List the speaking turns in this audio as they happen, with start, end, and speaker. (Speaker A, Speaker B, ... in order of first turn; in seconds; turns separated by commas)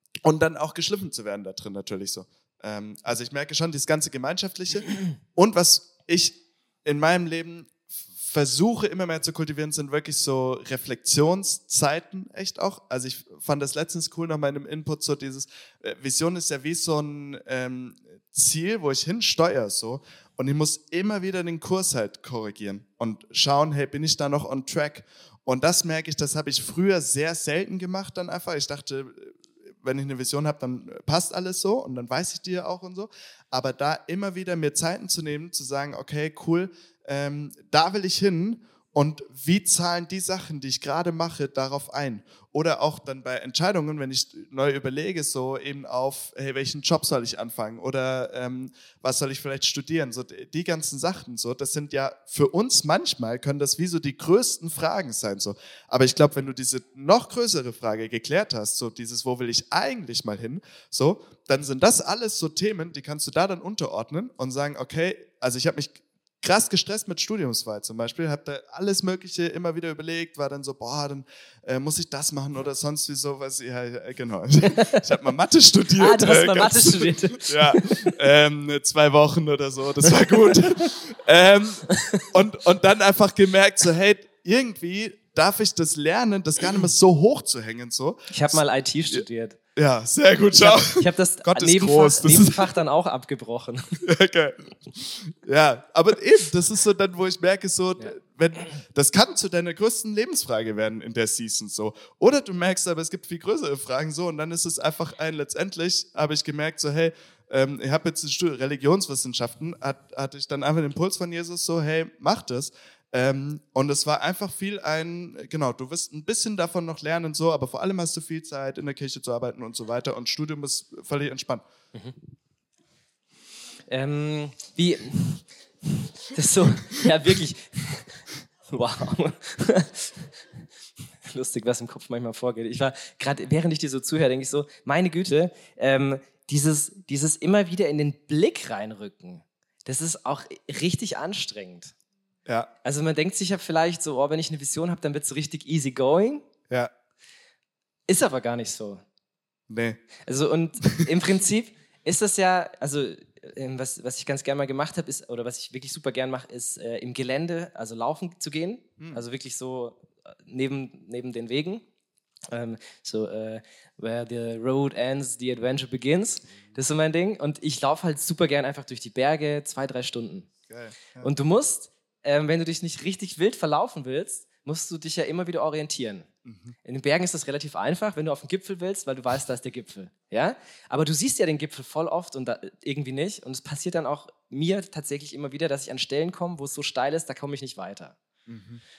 Speaker A: 0.2-89.2, Speaker B: 74.7-75.0, Speaker B: 76.0-78.2, Speaker B: 80.2-80.9, Speaker B: 88.3-89.6, Speaker A: 89.8-92.7, Speaker B: 90.5-94.0, Speaker A: 94.0-121.6, Speaker B: 123.9-130.3, Speaker B: 131.2-141.9, Speaker B: 142.8-146.4, Speaker B: 148.1-149.0, Speaker A: 149.7-150.0, Speaker B: 150.2-161.8, Speaker B: 162.5-170.5, Speaker A: 170.7-171.3, Speaker B: 171.2-176.3, Speaker A: 176.4-176.8, Speaker B: 176.8-188.2, Speaker A: 188.5-188.8